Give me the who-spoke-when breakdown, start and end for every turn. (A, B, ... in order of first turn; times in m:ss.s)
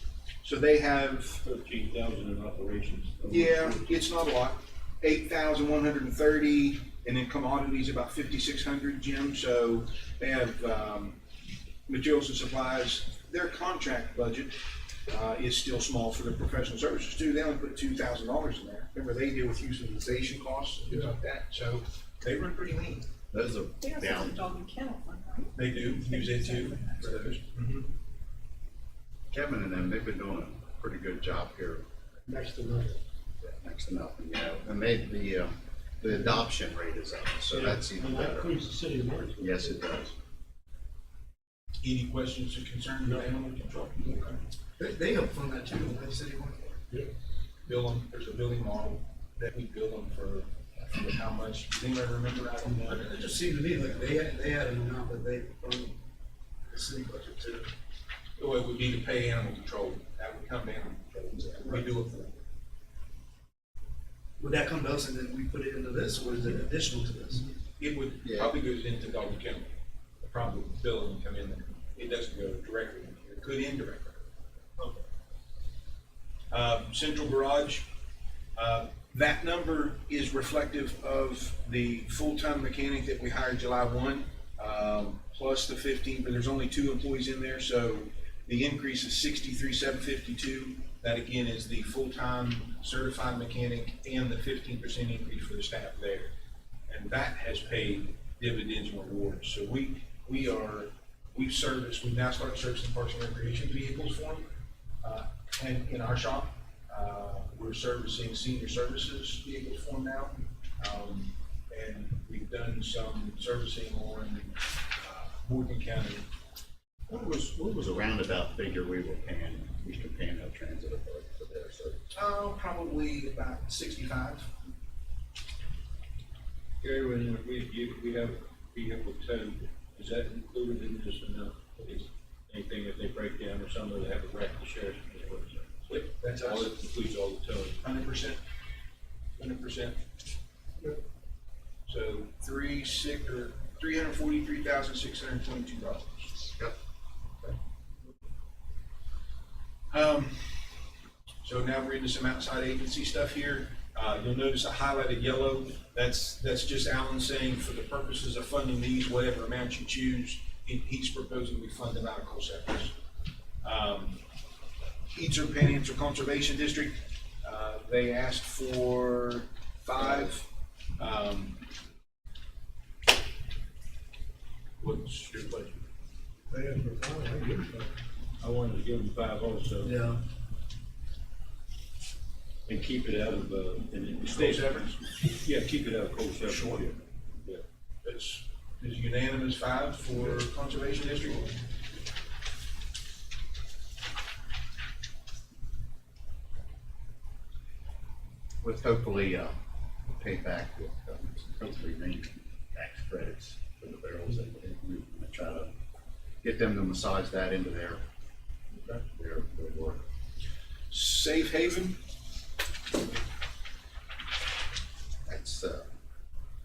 0:00.4-0:01.4 A
0:01.4-0:03.9 B
0:03.3-0:11.2 A
0:11.9-0:23.1 A
0:23.3-0:24.4 C
0:23.8-0:27.1 D
0:25.6-0:27.9 A
0:29.3-0:31.8 C
0:32.3-0:33.0 E
0:33.4-0:38.5 C
0:37.5-0:40.0 E
0:39.4-0:40.1 C
0:41.8-0:44.4 A
0:44.8-0:46.8 F
0:47.6-0:53.1 A
0:52.6-0:56.0 F
0:56.7-0:57.7 F
0:58.4-1:02.4 A
1:04.4-1:07.4 F
1:07.8-1:14.2 A
1:08.2-1:08.5 C
1:16.5-1:17.9 A
1:18.6-1:36.3 A
1:36.9-1:44.5 A
1:45.0-1:56.3 A
1:57.1-2:02.0 C
2:02.1-2:04.5 A
2:06.8-2:17.8 B
2:15.9-2:16.7 A
2:17.8-2:18.4 A
2:19.4-2:20.0 A
2:21.9-2:26.3 A
2:29.9-2:30.9 A
2:31.4-2:42.9 A
2:43.6-2:44.2 A
2:45.1-2:51.6 A
2:54.8-2:55.8 A
2:56.5-2:57.9 E
2:58.4-3:00.0 B
2:59.8-3:00.2 F
3:02.7-3:07.6 B
3:04.2-3:05.0 A
3:06.4-3:06.8 A
3:08.0-3:11.6 A
3:18.6-3:19.5 C
3:20.1-3:25.7 C
3:26.4-3:28.0 C
3:29.0-3:30.0 C
3:30.9-3:32.0 A
3:35.2-3:35.9 C